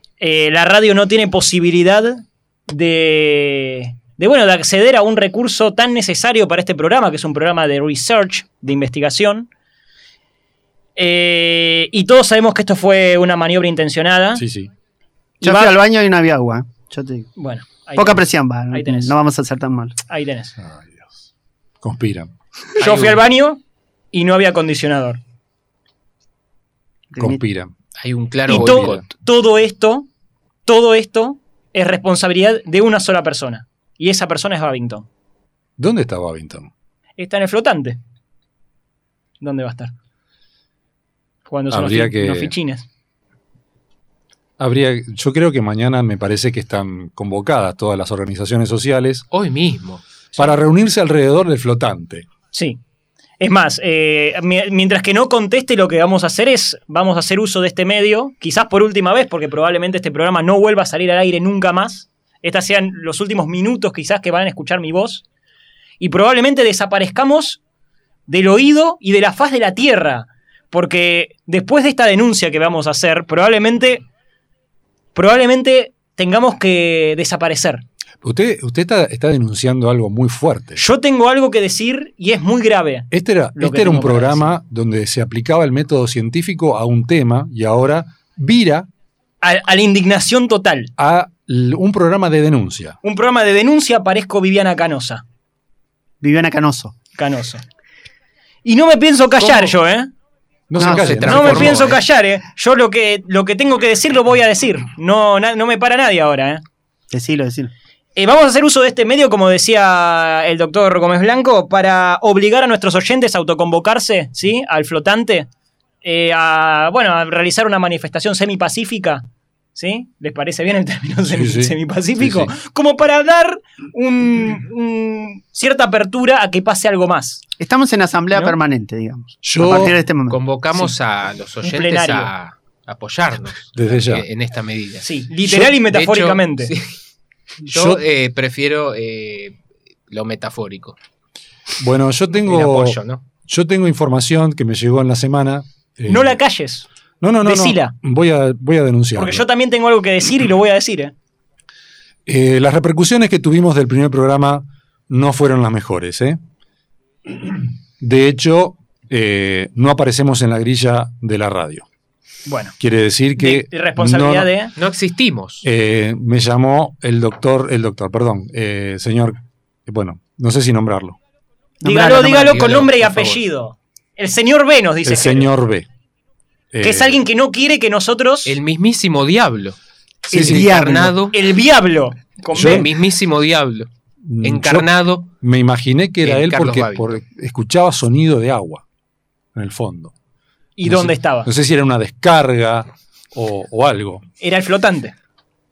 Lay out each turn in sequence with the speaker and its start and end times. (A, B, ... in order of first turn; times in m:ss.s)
0:00.2-0:09.5 A
0:11.0-0:14.4 A
0:14.4-0:14.7 B
0:15.4-0:15.8 A
0:15.4-0:17.3 C
0:17.4-0:19.1 A
0:18.0-0:20.0 C
0:20.1-0:20.5 A
0:20.6-0:21.1 B
0:21.8-0:22.3 B
0:22.8-0:23.6 A
0:22.8-0:23.2 D
0:24.1-0:25.2 A
0:27.1-0:27.4 C
0:27.2-0:27.7 B
0:28.0-0:29.0 D
0:28.5-0:29.0 B
0:28.5-0:30.1 A
0:30.7-0:35.1 A
0:35.8-0:36.7 B
0:37.2-0:38.0 A
0:39.4-0:39.9 A
0:41.5-0:42.8 A
0:41.7-0:42.5 B
0:44.6-0:49.3 B
0:49.3-0:50.0 D
0:50.4-0:52.3 B
0:52.5-0:52.8 A
0:53.4-1:05.2 A
1:06.0-1:07.6 A
1:08.3-1:14.0 A
1:15.2-1:17.8 A
1:18.2-1:20.8 B
1:20.8-1:24.5 A
1:23.1-1:28.9 B
1:29.4-1:30.9 A
1:31.0-1:33.0 B
1:33.0-1:35.2 A
1:36.2-1:37.0 C
1:37.2-1:37.6 A
1:38.6-1:40.1 A
1:39.4-1:39.8 D
1:40.7-1:41.9 B
1:40.8-1:42.0 D
1:40.8-1:41.1 C
1:41.2-1:46.6 A
1:47.1-1:47.7 C
1:48.2-1:55.5 A
1:56.0-2:07.4 A
2:01.2-2:02.5 B
2:07.6-2:10.4 C
2:09.4-2:10.0 B
2:10.3-2:16.9 D
2:11.6-2:12.3 A
2:13.8-2:14.3 B
2:15.0-2:16.7 A
2:17.7-2:19.6 D
2:17.7-2:18.0 B
2:20.1-2:21.0 D
2:21.8-2:26.4 B
2:22.4-2:23.2 D
2:26.1-2:26.9 A
2:27.2-2:29.4 B
2:27.4-2:27.9 A
2:29.2-2:31.2 A
2:32.3-2:36.4 B
2:38.0-2:41.9 B
2:42.5-2:42.8 A
2:42.8-2:44.5 B
2:43.4-2:44.7 A
2:44.8-2:45.7 D
2:45.6-2:51.2 B
2:51.8-2:52.7 C
2:51.8-2:55.5 A
2:52.5-2:53.3 D
2:55.0-2:55.9 B
2:56.7-2:57.2 B
2:56.8-2:58.6 A
2:58.5-2:59.8 D
3:00.3-3:01.2 C
3:00.3-3:01.3 D
3:00.3-3:00.7 B
3:01.3-3:02.9 A
3:02.5-3:02.9 B
3:02.6-3:03.9 D
3:04.2-3:08.8 B
3:04.4-3:05.3 D
3:06.2-3:07.2 D
3:09.6-3:10.1 B
3:10.8-3:11.5 A
3:10.8-3:14.2 B
3:14.4-3:15.2 A